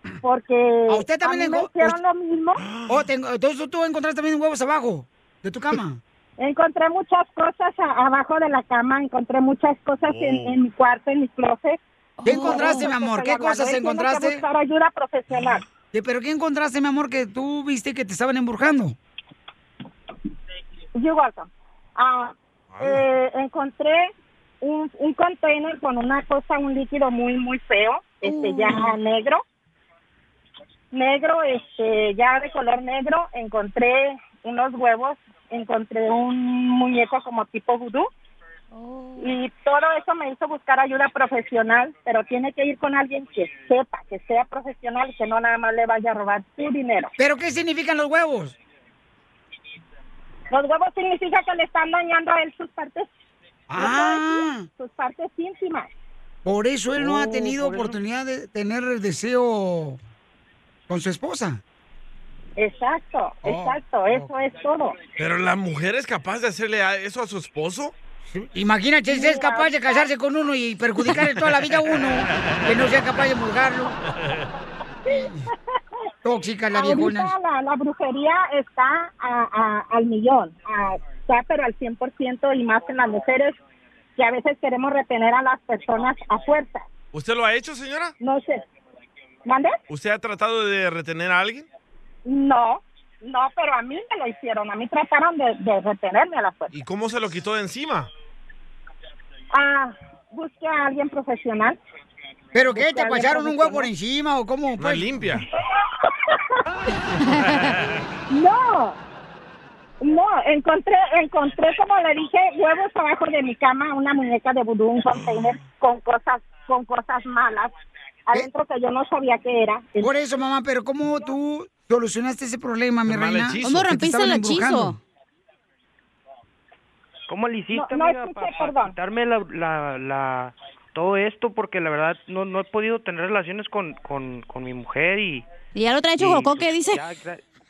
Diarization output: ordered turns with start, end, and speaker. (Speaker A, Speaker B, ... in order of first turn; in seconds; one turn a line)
Speaker A: 0.2-2.6
Speaker B: 0.9-2.0
Speaker C: 2.6-3.1
Speaker B: 2.9-6.0
Speaker A: 6.4-11.8
Speaker C: 10.1-10.6
Speaker D: 12.2-12.9
Speaker B: 12.2-14.4
Speaker A: 12.3-15.6
Speaker B: 15.9-19.0
Speaker A: 21.0-29.4
Speaker C: 22.7-23.0
Speaker D: 28.2-28.9
Speaker A: 30.9-38.1
Speaker D: 38.7-39.3
Speaker A: 39.2-47.1
Speaker B: 47.2-48.5
Speaker A: 50.5-53.1
Speaker B: 53.7-54.7
Speaker A: 53.8-55.9
Speaker B: 56.5-60.0
Speaker E: 57.1-58.0
Speaker B: 60.9-61.6
Speaker A: 62.6-65.0
Speaker B: 63.5-64.3
Speaker C: 65.2-67.9
Speaker B: 68.3-74.0
Speaker A: 69.1-70.0
Speaker C: 71.9-72.7
Speaker B: 75.1-75.5
Speaker B: 76.2-77.3
Speaker A: 76.7-83.6
Speaker A: 84.2-86.9
Speaker C: 87.1-88.1
Speaker A: 88.2-88.6
Speaker A: 89.5-89.8
Speaker C: 89.9-91.7
Speaker A: 92.2-96.7
Speaker C: 96.7-98.1
Speaker A: 99.5-101.8
Speaker B: 102.5-105.1
Speaker A: 102.7-103.9
Speaker C: 104.8-105.5
Speaker D: 107.3-107.6
Speaker C: 107.3-108.0
Speaker A: 108.3-109.0
Speaker A: 110.0-117.7
Speaker A: 118.3-120.1
Speaker B: 120.0-125.0
Speaker C: 123.1-123.9
Speaker D: 123.7-125.0
Speaker E: 127.3-135.5
Speaker A: 127.7-128.9
Speaker D: 135.8-137.0
Speaker E: 136.2-137.4